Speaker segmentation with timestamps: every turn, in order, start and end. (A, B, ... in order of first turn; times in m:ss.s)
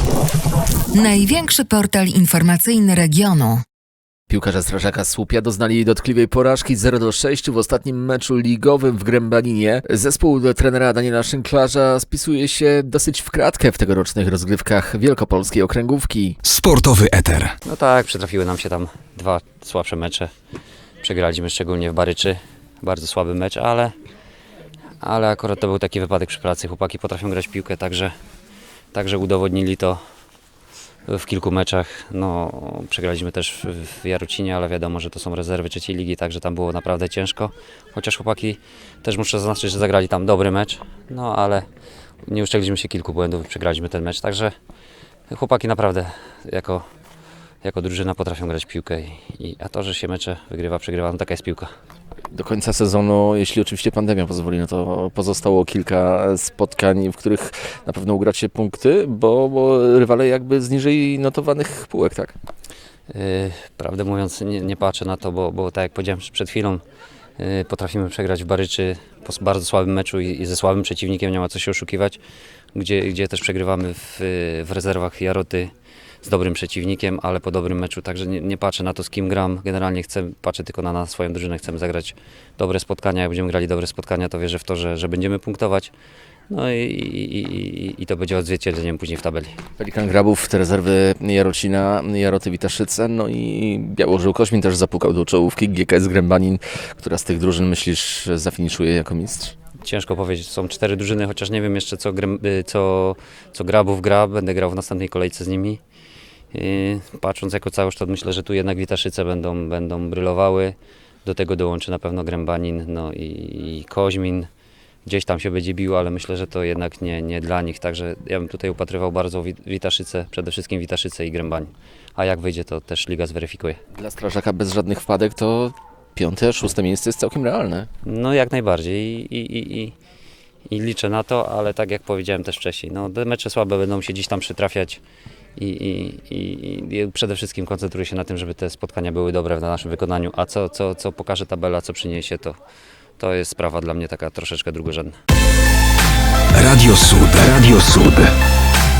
0:00.9-0:03.6 A
0:04.3-0:16.4 B
0:16.4-0:17.6 C
0:17.6-0:20.3 D
0:21.0-0:23.9 D
0:25.0-0:28.1 D
0:28.9-0:30.0 D
0:31.1-0:41.7 D
0:42.2-0:44.5 D
0:45.3-0:46.8 D
0:47.6-0:51.7 D
0:52.3-1:02.3 B
1:03.1-1:06.8 D
1:07.4-1:12.2 D
1:12.7-1:15.7 D
1:16.2-1:25.9 D
1:26.5-1:29.6 D
1:29.8-1:39.5 B
1:39.8-1:45.8 D
1:46.5-1:54.5 D
1:55.0-2:03.8 D
2:03.9-2:07.9 B
2:08.0-2:09.9 D
2:10.7-2:15.0 D
2:15.6-2:22.6 D
2:23.2-2:25.2 D
2:26.5-2:28.3 C